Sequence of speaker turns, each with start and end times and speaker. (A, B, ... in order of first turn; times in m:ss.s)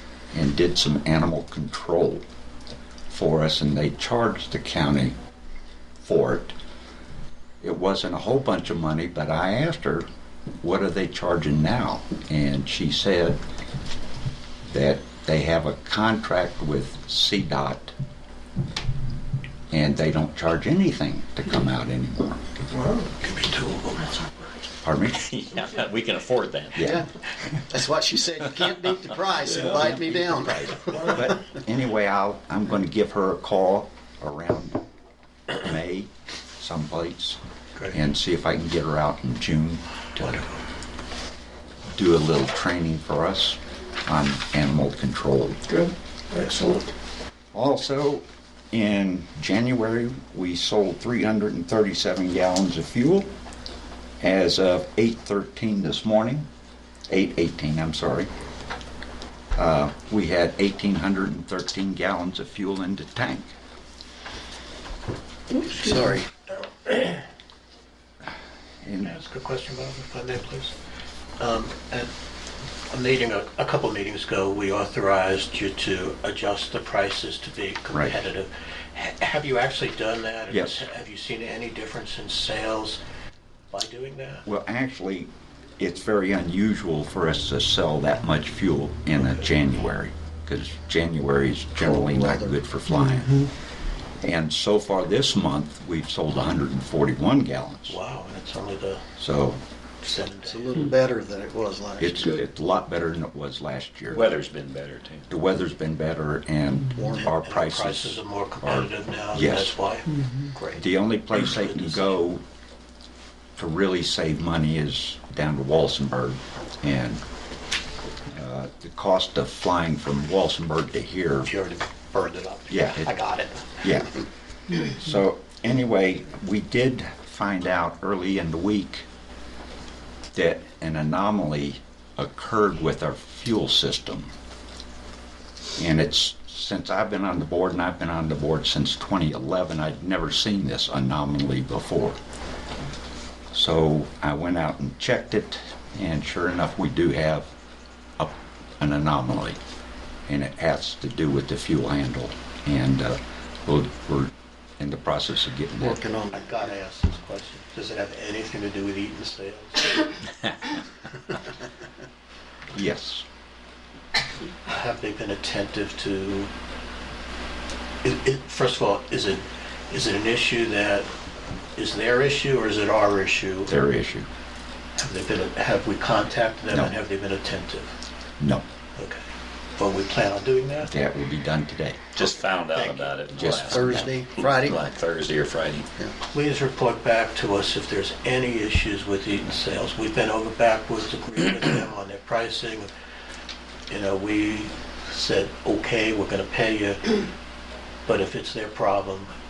0:00.3-0:02.2 A
0:03.1-0:05.2 A
0:06.0-0:06.5 A
0:07.6-0:10.1 A
0:10.6-0:13.4 A
0:14.6-0:17.9 A
0:19.7-0:22.4 A
0:22.7-0:24.5 B
0:24.8-0:25.2 A
0:25.1-0:26.8 C
0:26.8-0:27.1 A
0:26.8-0:27.1 D
0:27.7-0:31.3 D
0:30.7-0:31.1 B
0:31.0-0:34.8 A
0:35.5-0:40.4 A
0:40.2-0:40.6 B
0:41.9-0:45.6 A
0:45.7-0:46.9 B
0:47.5-0:53.3 A
0:54.2-0:56.5 A
0:57.1-0:58.3 A
0:59.5-1:03.5 A
1:05.6-1:06.3 D
1:06.5-1:07.2 B
1:08.8-1:09.1 A
1:09.0-1:10.7 B
1:11.4-1:12.1 B
1:12.9-1:23.0 B
1:17.9-1:18.2 A
1:20.5-1:20.8 A
1:23.7-1:24.4 B
1:24.4-1:33.5 A
1:29.2-1:29.4 B
1:31.8-1:32.6 D
1:34.2-1:38.0 A
1:37.9-1:39.0 B
1:39.2-1:39.6 A
1:40.0-1:40.8 B
1:40.4-1:42.4 D
1:42.0-1:44.2 A
1:44.1-1:45.3 C
1:45.3-1:49.8 A
1:47.0-1:47.3 D
1:47.1-1:52.2 B
1:50.8-1:52.4 A
1:53.6-1:57.2 A
1:58.3-2:01.5 A
2:01.5-2:03.8 B
2:02.7-2:03.1 A
2:03.8-2:04.2 A
2:04.7-2:09.1 A
2:10.3-2:14.3 A
2:15.8-2:22.2 A
2:23.5-2:27.5 A
2:28.2-2:29.6 A
2:30.3-2:36.0 A
2:35.8-2:36.6 D
2:36.3-2:40.2 B
2:42.7-2:43.2 A
2:44.6-2:46.5 B
2:48.0-2:51.1 B
2:51.8-2:53.7 B
2:53.7-2:54.3 A
2:55.0-2:57.9 B
2:58.4-2:58.6 A
2:59.0-2:59.2 B
2:59.8-3:00.9 B
3:00.8-3:02.1 A
3:02.1-3:05.9 C
3:02.2-3:03.1 B
3:03.4-3:04.0 A
3:03.6-3:04.8 D
3:06.2-3:12.9 B
3:13.9-3:17.2 B
3:18.0-3:19.3 B